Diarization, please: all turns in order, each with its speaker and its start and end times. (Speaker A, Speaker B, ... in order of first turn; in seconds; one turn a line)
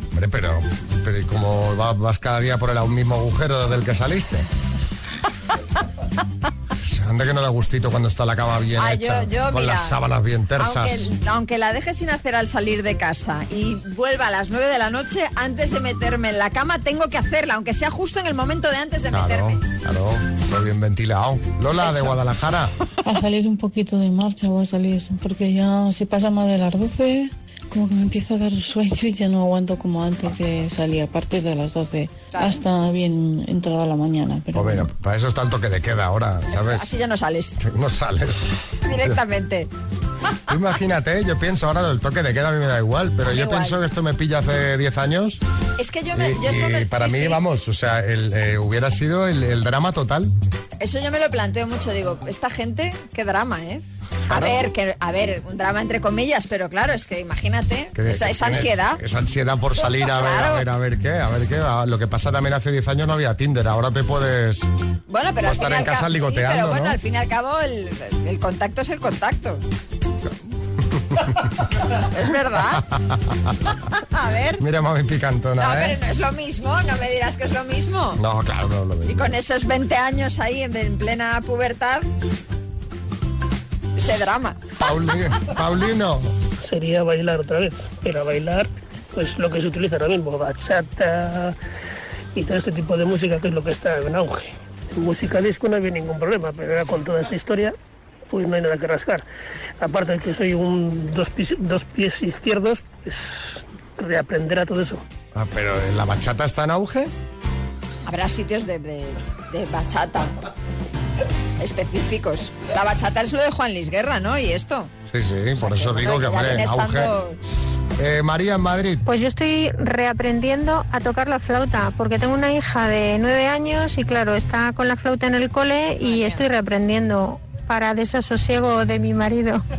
Speaker A: 0.1-4.5
Speaker A: 6.8-11.1
Speaker B: 8.8-10.0
Speaker B: 10.6-19.6
Speaker A: 19.1-22.7
Speaker B: 21.8-22.2
Speaker C: 23.1-34.9
Speaker B: 32.3-32.6
Speaker A: 34.5-36.9
Speaker B: 36.5-37.6
Speaker A: 37.6-38.5
Speaker B: 38.9-39.7
Speaker A: 40.5-45.4
Speaker B: 43.3-43.8
Speaker B: 45.8-47.4
Speaker A: 46.1-50.3
Speaker B: 50.8-59.0
Speaker A: 54.3-54.7
Speaker A: 58.0-64.7
Speaker B: 60.2-60.6
Speaker B: 65.1-69.6
Speaker A: 65.4-67.0
Speaker A: 71.0-71.5
Speaker B: 72.1-72.8
Speaker A: 72.8-73.5
Speaker B: 74.1-74.6
Speaker A: 74.6-76.0
Speaker B: 75.6-78.2
Speaker A: 78.2-79.3
Speaker B: 79.1-82.1
Speaker B: 84.0-84.8
Speaker A: 84.8-86.3
Speaker D: 86.6-91.3
Speaker D: 92.4-97.7
Speaker D: 98.3-99.2
Speaker D: 99.8-105.0
Speaker A: 105.3-107.1
Speaker B: 108.0-110.4
Speaker B: 111.6-114.9
Speaker A: 115.1-117.1
Speaker B: 115.6-117.4
Speaker A: 118.0-119.0
Speaker E: 119.1-129.6
Speaker B: 126.0-126.5